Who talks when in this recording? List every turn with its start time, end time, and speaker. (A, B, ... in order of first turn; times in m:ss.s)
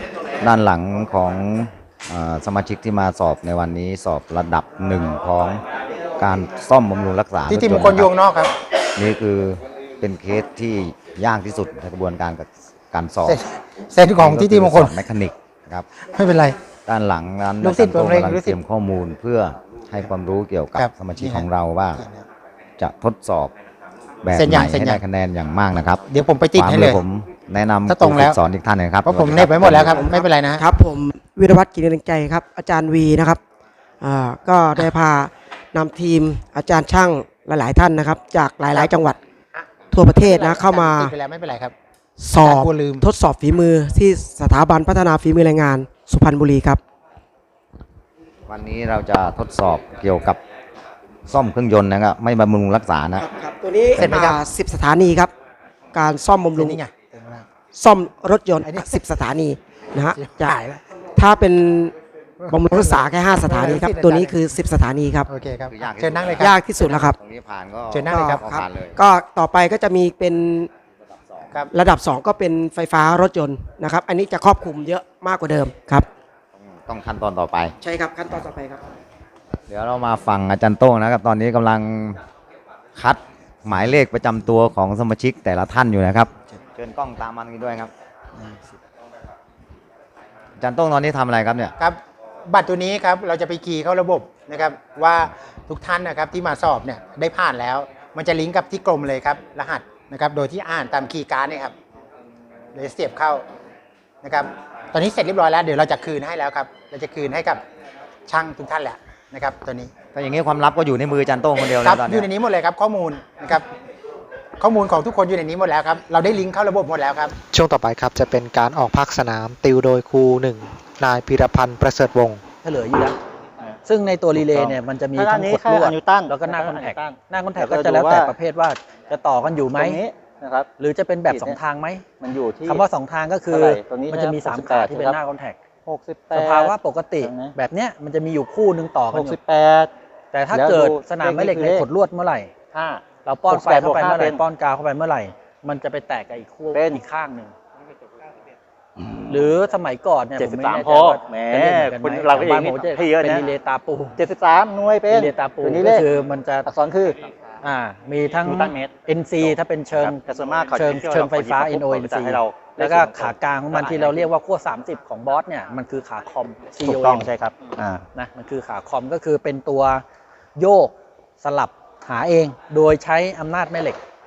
0:00.4-0:05.6 A
0:06.2-0:08.1 A
0:07.5-0:08.5 B
0:09.0-0:13.4 A
0:13.2-0:15.0 B
0:14.2-0:15.9 A
0:16.1-0:16.6 B
0:16.9-0:22.0 A
0:17.6-0:18.6 B
0:20.8-0:22.3 B
0:22.8-0:23.5 A
0:24.2-0:26.0 A
0:24.3-0:25.0 B
0:26.0-0:27.0 B
0:26.6-0:30.0 A
0:27.9-0:28.4 B
0:29.0-0:30.6 B
0:29.7-0:33.4 C
0:34.0-0:39.2 C
0:39.5-0:41.7 B
0:39.9-0:41.1 C
0:42.2-0:46.8 C
0:42.4-0:43.0 B
0:48.5-0:50.4 A
0:51.3-0:53.2 A
0:53.2-0:55.3 C
0:54.0-0:54.4 B
0:55.9-0:56.8 C
0:56.6-0:57.5 B
0:57.7-1:00.6 C
0:58.6-0:59.0 B
1:00.0-1:00.8 B
1:01.2-1:01.9 C
1:02.4-1:04.5 B
1:02.5-1:05.3 C
1:05.3-1:07.0 B
1:05.7-1:06.5 A
1:06.4-1:07.2 C
1:07.0-1:09.0 A
1:07.9-1:08.5 B
1:08.1-1:10.7 C
1:11.7-1:16.1 C
1:16.6-1:17.8 A
1:17.8-1:18.8 C
1:19.7-1:22.2 A
1:23.0-1:27.9 A
1:30.6-1:31.7 A
1:31.8-1:41.8 B
1:42.7-1:43.4 B
1:44.2-1:47.6 B
1:48.3-1:49.9 B
1:50.1-1:52.3 A
1:51.8-1:53.7 B
1:54.6-1:57.3 B
1:57.5-2:02.4 D
2:02.6-2:03.2 E
2:03.8-2:10.0 E
2:04.4-2:08.3 F
2:09.7-2:10.7 F
2:10.8-2:12.0 E
2:11.3-2:11.6 F
2:12.2-2:12.8 F
2:12.6-2:15.6 E
2:13.5-2:15.2 F
2:15.9-2:17.5 F
2:16.3-2:19.4 E
2:19.1-2:19.9 F
2:20.3-2:22.5 E
2:20.5-2:21.8 F
2:22.7-2:24.4 F
2:23.2-2:27.5 E
2:26.7-2:27.0 F
2:29.0-2:29.3 F
2:29.3-2:34.2 E
2:30.4-2:33.4 F
2:34.2-2:36.1 F
2:35.1-2:36.7 E
2:36.6-2:37.3 F
2:37.6-2:40.2 E
2:38.4-2:38.9 F
2:39.4-2:44.3 F
2:40.7-2:47.3 E
2:46.8-2:48.0 F
2:48.1-2:50.0 E
2:50.6-2:54.0 E